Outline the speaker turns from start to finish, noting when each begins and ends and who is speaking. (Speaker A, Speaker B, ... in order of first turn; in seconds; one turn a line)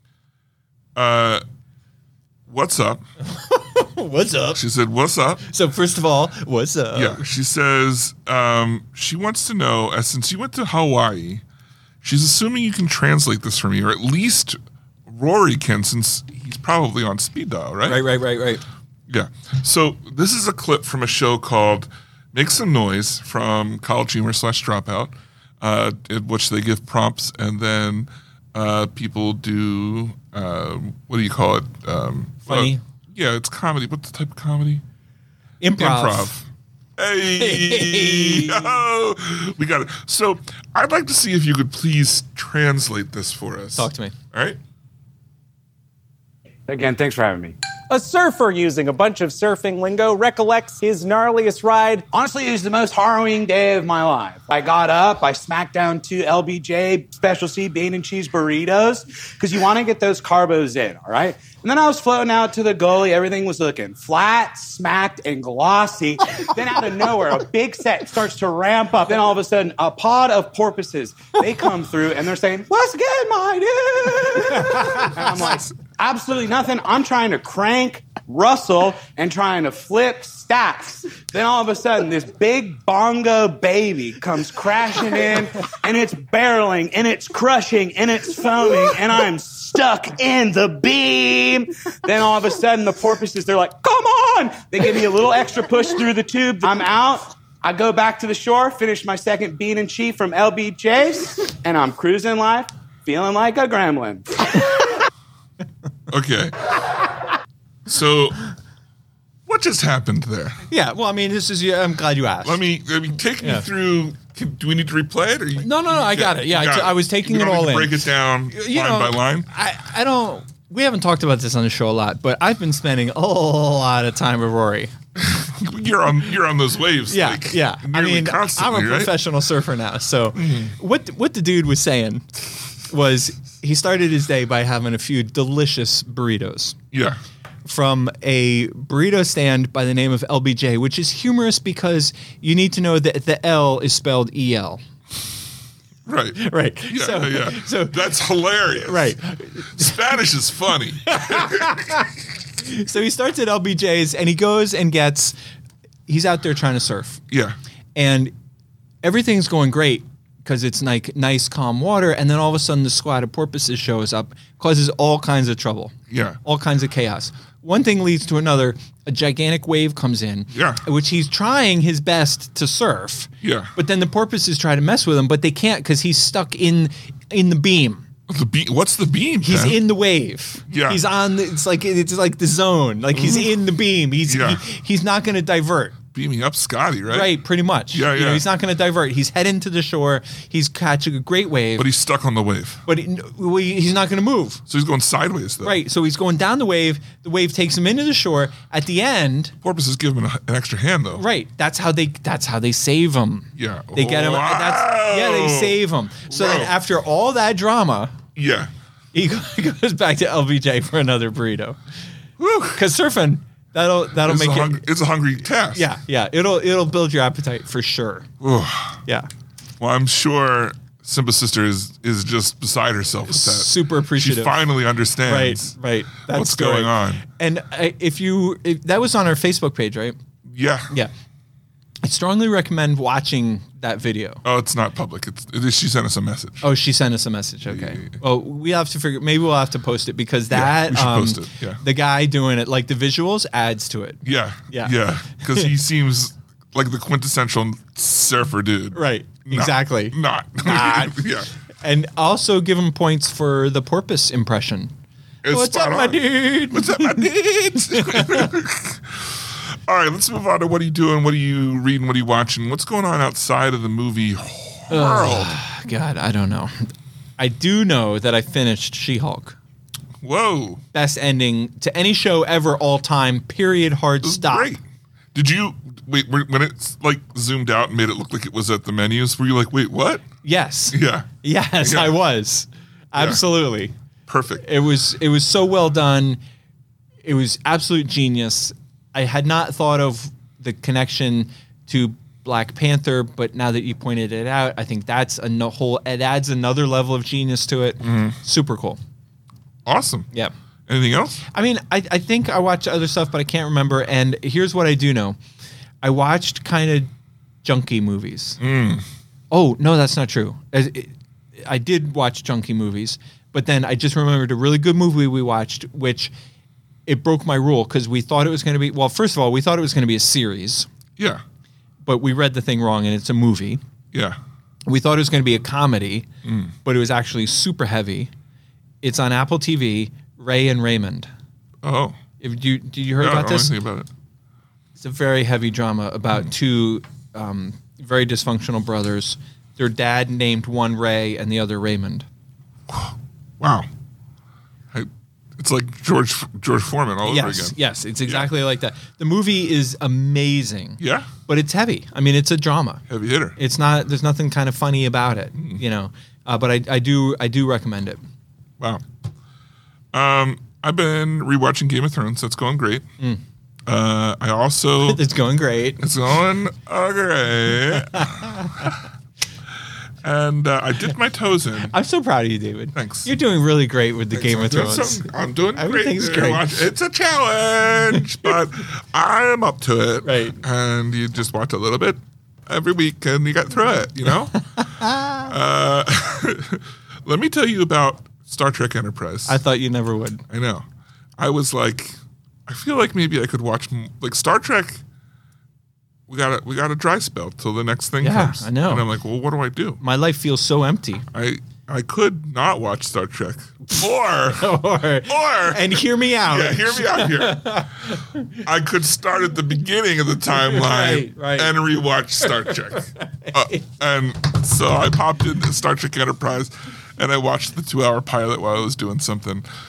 Speaker A: 0.9-1.4
Speaker A: 2.5-3.0
Speaker B: 3.2-4.6
Speaker A: 4.5-5.4
Speaker B: 5.5-7.3
Speaker A: 6.9-11.4
Speaker A: 12.0-18.0
Speaker B: 17.8-18.6
Speaker A: 19.1-34.8
Speaker B: 32.5-32.8
Speaker B: 35.6-36.3
Speaker A: 35.8-36.4
Speaker A: 37.0-44.6
Speaker B: 37.3-38.8
Speaker B: 43.8-44.1
Speaker C: 46.7-47.6
Speaker D: 47.9-52.0
Speaker C: 52.1-104.8
Speaker B: 74.7-75.1
Speaker A: 106.1-106.6
Speaker A: 107.8-108.4
Speaker A: 109.5-110.6
Speaker B: 110.7-112.6
Speaker A: 112.4-119.5
Speaker B: 115.6-124.9
Speaker A: 125.2-129.1
Speaker B: 127.1-136.8
Speaker A: 130.3-130.7
Speaker A: 136.9-137.2
Speaker B: 137.7-144.8
Speaker A: 146.1-152.1
Speaker B: 146.4-148.0
Speaker B: 148.8-150.0
Speaker B: 151.1-155.3
Speaker B: 156.1-157.2
Speaker A: 157.3-157.6
Speaker B: 157.9-158.3
Speaker B: 159.0-178.1
Speaker A: 166.1-166.4
Speaker A: 170.5-170.8
Speaker A: 173.4-173.7
Speaker A: 178.3-179.8
Speaker B: 179.4-185.9
Speaker A: 180.7-181.0
Speaker A: 183.1-183.5
Speaker A: 184.2-184.6
Speaker A: 186.1-187.3
Speaker B: 187.1-191.9
Speaker A: 187.9-188.4
Speaker A: 191.8-192.8
Speaker B: 192.8-194.6
Speaker A: 194.7-195.8
Speaker B: 195.6-199.5
Speaker A: 199.6-201.2
Speaker B: 201.1-208.2
Speaker A: 203.6-206.7
Speaker A: 208.3-208.7
Speaker B: 209.1-211.8
Speaker A: 212.4-212.8
Speaker B: 212.7-214.9
Speaker A: 214.2-215.9
Speaker B: 215.7-218.3
Speaker A: 218.4-219.0
Speaker A: 219.8-225.7
Speaker B: 223.3-224.6
Speaker B: 225.2-230.2
Speaker A: 226.3-227.2
Speaker A: 230.4-230.9
Speaker B: 232.0-234.4
Speaker A: 234.4-236.6
Speaker B: 236.6-245.7
Speaker A: 237.6-238.2
Speaker A: 240.5-241.8
Speaker A: 244.2-251.5
Speaker B: 248.9-251.2
Speaker B: 251.8-254.9
Speaker A: 255.4-265.6
Speaker B: 255.5-258.5
Speaker B: 264.9-269.6
Speaker A: 270.2-270.8
Speaker B: 270.9-274.7
Speaker A: 274.2-274.8
Speaker A: 275.3-280.2
Speaker B: 280.4-283.9
Speaker A: 280.9-282.2
Speaker A: 283.1-283.4
Speaker A: 284.3-284.7
Speaker B: 284.6-286.4
Speaker B: 287.2-299.0
Speaker A: 298.0-298.4
Speaker A: 299.8-300.3
Speaker A: 300.9-301.4
Speaker B: 301.5-305.4
Speaker B: 306.0-307.1
Speaker B: 307.6-308.6
Speaker A: 308.6-309.0
Speaker B: 309.5-316.3
Speaker B: 317.1-320.9
Speaker A: 321.2-321.4
Speaker B: 322.1-323.8
Speaker A: 324.1-324.4
Speaker B: 324.9-326.3
Speaker A: 326.4-326.7
Speaker B: 326.8-328.3
Speaker B: 329.0-331.3
Speaker A: 331.8-332.2
Speaker B: 332.4-333.7
Speaker A: 333.2-334.1
Speaker B: 335.0-342.2
Speaker A: 342.9-343.9
Speaker A: 344.9-348.5
Speaker B: 347.2-353.0
Speaker A: 351.0-351.3
Speaker A: 353.1-353.6
Speaker B: 353.6-358.2
Speaker A: 360.1-363.1
Speaker A: 363.9-365.3
Speaker B: 365.0-366.0
Speaker A: 366.0-369.0
Speaker B: 368.1-368.9
Speaker A: 370.2-371.9
Speaker B: 371.9-376.6
Speaker A: 372.9-373.3
Speaker A: 374.3-384.6
Speaker B: 380.2-380.6
Speaker B: 384.5-385.5
Speaker A: 385.3-389.6
Speaker B: 389.5-390.4
Speaker A: 390.5-392.1
Speaker A: 392.7-395.0
Speaker A: 396.3-400.0
Speaker B: 398.2-399.1
Speaker B: 400.0-401.2
Speaker A: 401.3-419.6
Speaker B: 404.5-408.6
Speaker B: 410.6-411.8
Speaker B: 412.4-413.8